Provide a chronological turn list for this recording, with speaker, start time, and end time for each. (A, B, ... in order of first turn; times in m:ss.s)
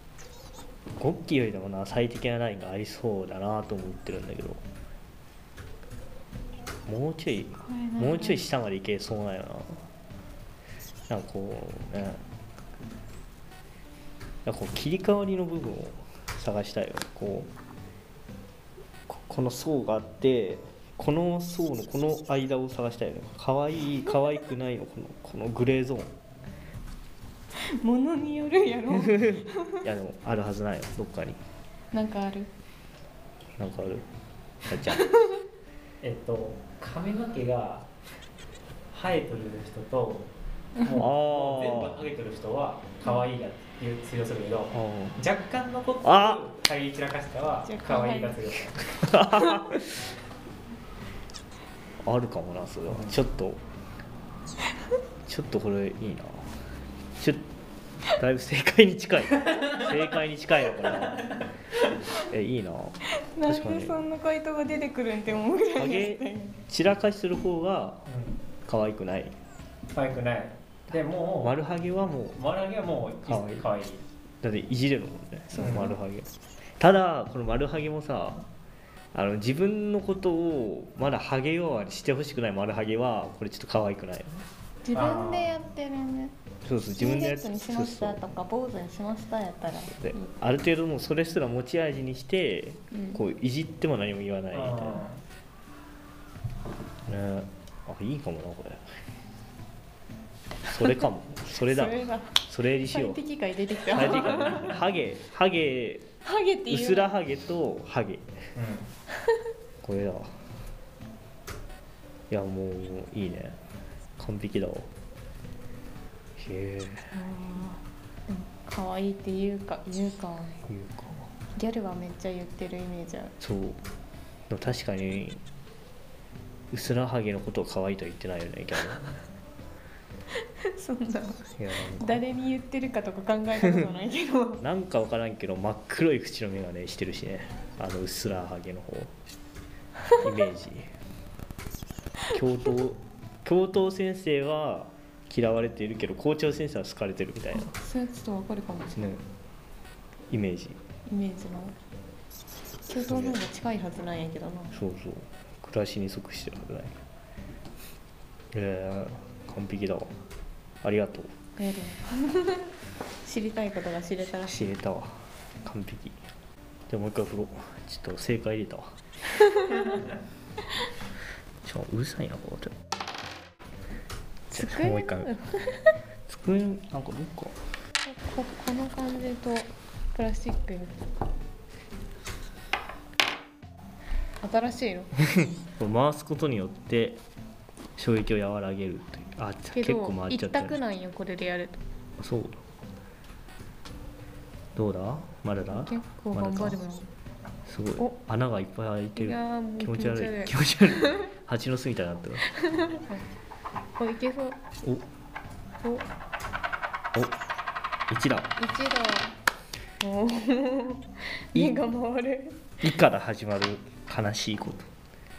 0:01.0-0:04.6 A
0:06.9-0:09.8 A
0:07.6-0:08.4 B
0:11.1-0:12.2 A
0:14.4-0:17.5 A
0:19.1-0:26.1 A
0:27.5-0:29.8 B
0:28.9-0:31.4 A
0:31.9-0:32.5 B
0:33.6-0:34.1 A
0:34.6-0:35.1 A
0:34.8-0:35.4 B
0:36.0-0:37.9 C
0:38.9-0:48.9 C
0:40.9-0:42.0 A
0:44.7-0:45.2 A
0:46.0-0:46.4 A
0:47.6-0:48.4 B
0:49.0-0:50.0 A
0:52.0-0:53.6 A
0:55.2-0:56.5 A
0:57.2-0:57.5 A
0:58.1-1:01.4 A
1:02.2-1:04.0 A
1:03.2-1:06.6 B
1:05.8-1:08.0 A
1:08.1-1:08.4 C
1:08.6-1:09.3 A
1:09.9-1:11.5 C
1:11.4-1:12.4 A
1:12.3-1:14.0 C
1:13.2-1:13.7 A
1:14.4-1:18.5 A
1:15.6-1:15.9 C
1:19.1-1:24.4 A
1:24.8-1:26.3 B
1:25.0-1:25.3 C
1:26.6-1:28.2 A
1:27.0-1:30.3 B
1:29.9-1:35.0 A
1:32.9-1:33.2 B
1:34.5-1:35.2 C
1:37.1-1:38.8 A
1:40.7-1:43.2 A
1:41.6-1:44.7 B
1:43.8-1:46.0 A
1:46.2-1:47.1 B
1:46.7-1:48.3 A
1:48.6-1:48.9 C
1:49.8-1:50.4 A
1:52.3-1:53.6 A
1:54.2-1:54.9 A
1:56.4-1:57.1 A
1:57.1-2:00.6 B
2:00.6-2:01.3 A
2:01.5-2:03.3 B
2:03.4-2:03.8 A
2:04.5-2:05.4 A
2:06.7-2:09.1 A
2:10.6-2:14.6 B
2:11.6-2:12.2 A
2:14.6-2:19.1 A
2:20.2-2:20.9 A
2:22.3-2:27.7 A
2:27.5-2:29.0 B
2:28.9-2:29.2 A
2:30.3-2:30.8 A
2:31.1-2:31.7 B
2:32.8-2:34.7 B
2:32.9-2:33.4 A
2:34.7-2:37.0 A
2:38.5-2:40.1 A
2:40.8-2:41.3 A
2:41.6-2:42.7 B
2:43.2-2:44.6 B
2:44.2-2:46.2 A
2:46.9-2:49.0 A
2:51.6-2:52.7 A
2:54.5-2:55.9 B
2:54.5-2:55.3 A
2:56.3-2:57.5 A
2:58.0-3:01.0 B
3:04.4-3:05.1 B
3:05.4-3:07.2 A
3:08.0-3:10.8 A
3:09.7-3:11.8 B
3:12.2-3:12.6 A
3:14.8-3:16.8 A
3:15.7-3:17.1 B
3:17.7-3:22.4 A
3:19.2-3:21.3 B
3:22.6-3:23.2 B
3:24.0-3:24.6 B
3:25.8-3:26.0 B
3:28.1-3:28.5 A
3:28.6-3:29.4 B
3:30.0-3:32.6 B
3:32.8-3:34.9 A